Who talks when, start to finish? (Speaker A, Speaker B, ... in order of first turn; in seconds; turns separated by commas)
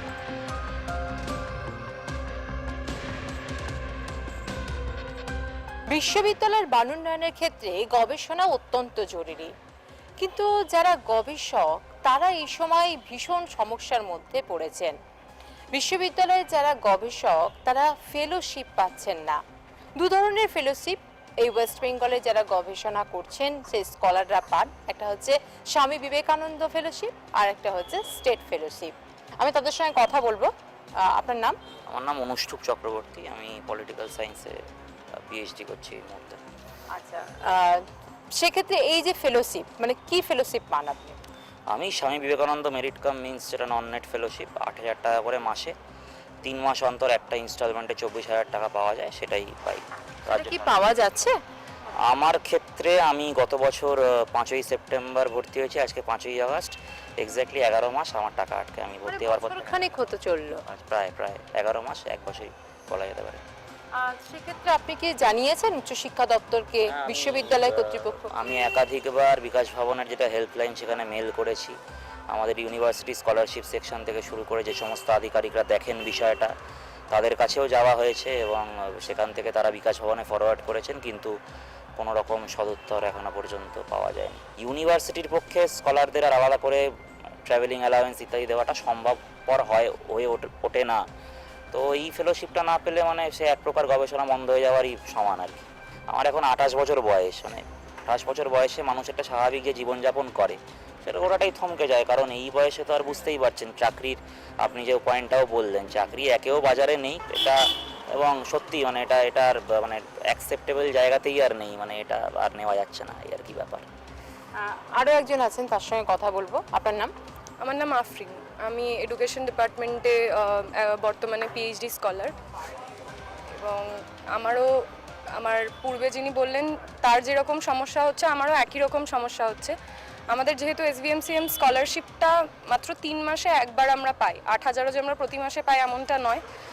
Speaker A: 5.9-9.5, Speaker A: 10.2-14.9, Speaker A: 15.7-19.4, Speaker A: 20.0-31.6, Speaker B: 31.9-34.6, Speaker B: 35.1-36.4, Speaker A: 36.9-37.8, Speaker A: 38.3-41.2, Speaker B: 41.7-45.7, Speaker B: 46.4-50.8, Speaker A: 50.3-51.4, Speaker B: 52.0-59.9, Speaker A: 59.0-60.6, Speaker B: 60.7-63.4, Speaker A: 63.9-68.7, Speaker B: 66.9-71.7, Speaker B: 72.3-76.5, Speaker B: 77.1-81.3, Speaker B: 82.0-86.8, Speaker B: 87.5-91.0, Speaker B: 91.7-107.6, Speaker B: 108.1-113.9, Speaker A: 114.5-117.1, Speaker C: 117.6-122.3, Speaker C: 123.5-124.7, Speaker C: 125.3-129.7, Speaker C: 130.3-136.4